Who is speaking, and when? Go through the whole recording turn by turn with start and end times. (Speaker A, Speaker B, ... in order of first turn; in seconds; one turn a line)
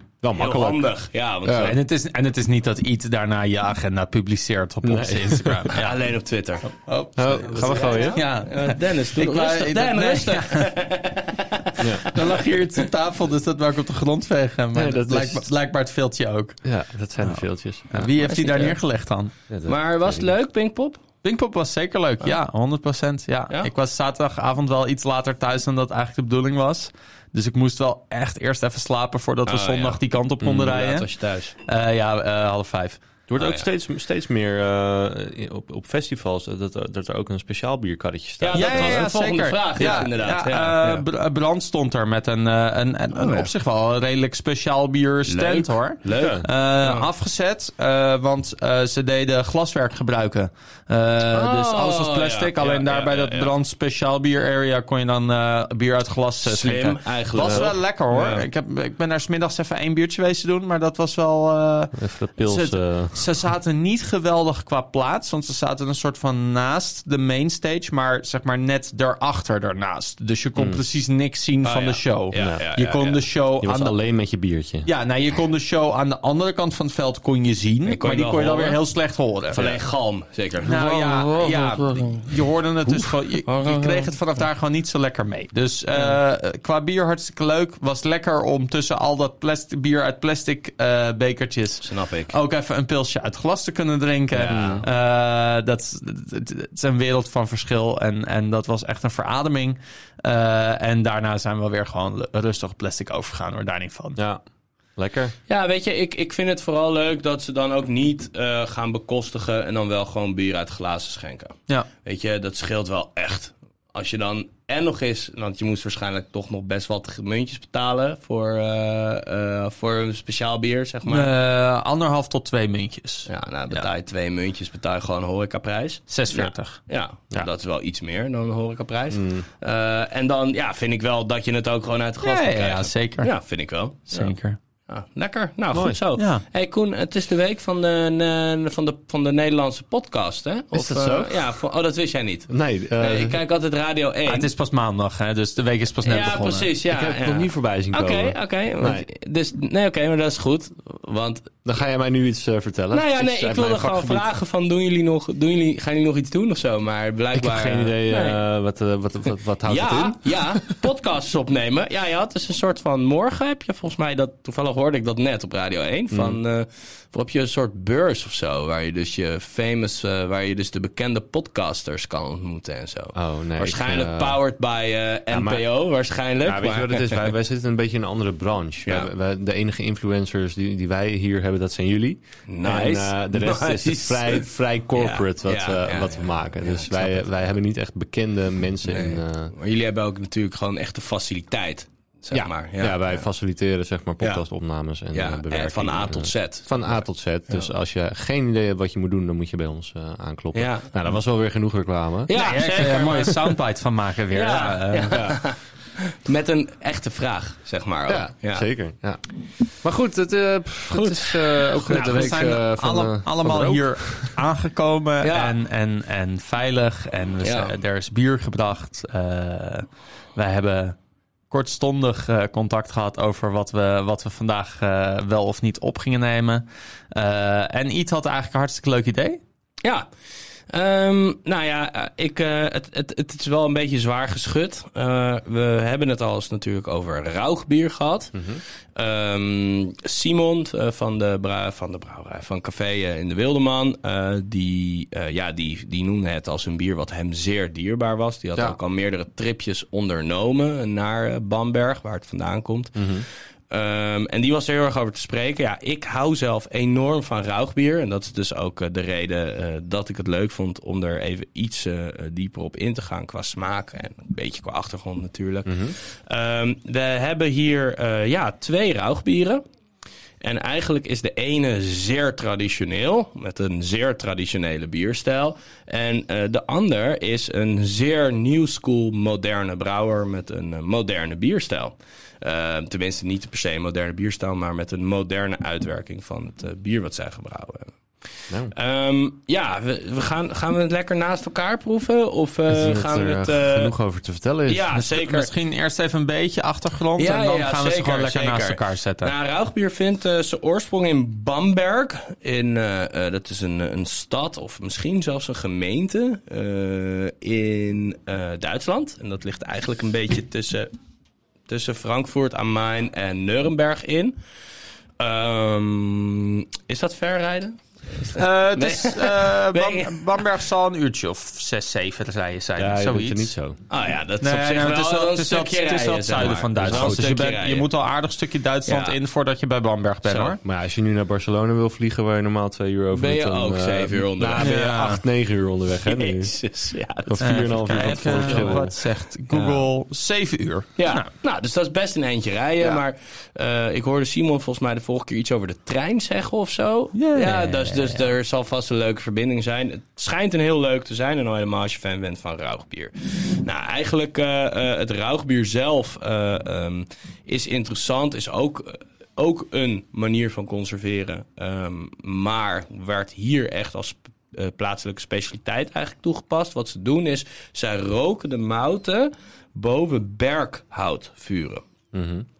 Speaker A: 0.2-0.9
Speaker B: 0.3-1.8
Speaker A: 1.4-1.7
Speaker C: 1.6-6.0
Speaker A: 4.8-5.6
Speaker B: 5.7-6.8
Speaker C: 6.7-10.7
Speaker A: 7.2-8.2
Speaker B: 7.5-12.6
Speaker C: 12.0-16.6
Speaker A: 14.7-15.5
Speaker A: 16.6-18.1
Speaker C: 17.2-19.3
Speaker B: 18.2-18.8
Speaker A: 19.5-20.3
Speaker B: 19.6-21.0
Speaker C: 21.2-31.1
Speaker B: 29.5-30.0
Speaker A: 30.4-30.7
Speaker B: 30.6-31.5
Speaker C: 31.6-33.0
Speaker A: 33.3-39.1
Speaker B: 38.4-41.0
Speaker C: 38.5-74.0
Speaker A: 39.8-40.1
Speaker B: 43.1-43.5
Speaker B: 45.3-47.1
Speaker A: 46.1-46.5
Speaker B: 51.3-53.5
Speaker B: 56.4-58.4
Speaker A: 61.9-63.2
Speaker A: 70.5-70.8
Speaker B: 71.6-73.2
Speaker A: 73.6-74.9
Speaker C: 74.8-79.8
Speaker B: 77.8-78.8
Speaker B: 79.5-81.6
Speaker C: 80.6-104.2
Speaker A: 81.0-82.1
Speaker A: 83.5-84.0
Speaker B: 91.8-92.3
Speaker A: 94.3-94.8
Speaker A: 104.2-104.4
Speaker A: 105.0-105.3
Speaker B: 105.5-121.3
Speaker C: 121.0-123.9
Speaker B: 123.3-134.3
Speaker C: 126.1-126.8
Speaker A: 129.1-129.4
Speaker C: 132.2-133.3
Speaker C: 134.1-134.6
Speaker B: 134.9-144.5
Speaker A: 135.7-136.0
Speaker C: 136.2-136.4
Speaker A: 140.7-141.4
Speaker A: 142.5-143.4
Speaker C: 144.3-146.7
Speaker B: 146.0-151.6
Speaker A: 146.9-149.1
Speaker A: 151.6-154.2
Speaker B: 152.9-158.4
Speaker A: 157.3-160.8
Speaker B: 159.6-177.3
Speaker A: 166.1-166.4
Speaker A: 173.1-174.4
Speaker A: 175.3-175.7
Speaker A: 176.4-189.5
Speaker B: 182.5-187.2
Speaker B: 188.8-193.2
Speaker A: 192.3-202.3
Speaker B: 195.1-197.7
Speaker B: 200.5-200.9
Speaker B: 202.3-203.6
Speaker C: 202.3-205.3
Speaker B: 204.3-208.7
Speaker A: 208.1-209.2
Speaker A: 209.8-214.3
Speaker B: 210.9-212.3
Speaker C: 211.8-221.0
Speaker B: 215.2-215.6
Speaker B: 217.4-217.8
Speaker C: 221.5-229.4
Speaker B: 230.7-238.4
Speaker A: 238.3-238.6
Speaker B: 238.9-269.6
Speaker A: 252.9-253.3
Speaker A: 265.6-265.9
Speaker B: 270.4-287.9
Speaker B: 288.7-293.9
Speaker A: 292.7-294.9
Speaker B: 294.7-295.5
Speaker C: 294.9-299.3
Speaker B: 297.2-310.9
Speaker B: 311.7-314.4
Speaker B: 315.2-320.4
Speaker C: 318.4-323.5
Speaker A: 322.8-323.8
Speaker B: 323.9-327.9
Speaker C: 324.4-330.6
Speaker A: 326.8-327.3
Speaker B: 328.9-329.1
Speaker B: 330.2-330.5
Speaker A: 330.6-336.5
Speaker B: 333.1-335.1
Speaker C: 334.6-335.2
Speaker B: 336.1-339.0
Speaker A: 337.2-338.9
Speaker C: 337.4-341.3
Speaker B: 339.5-339.9
Speaker B: 341.0-371.8
Speaker C: 347.1-348.3
Speaker A: 372.1-372.4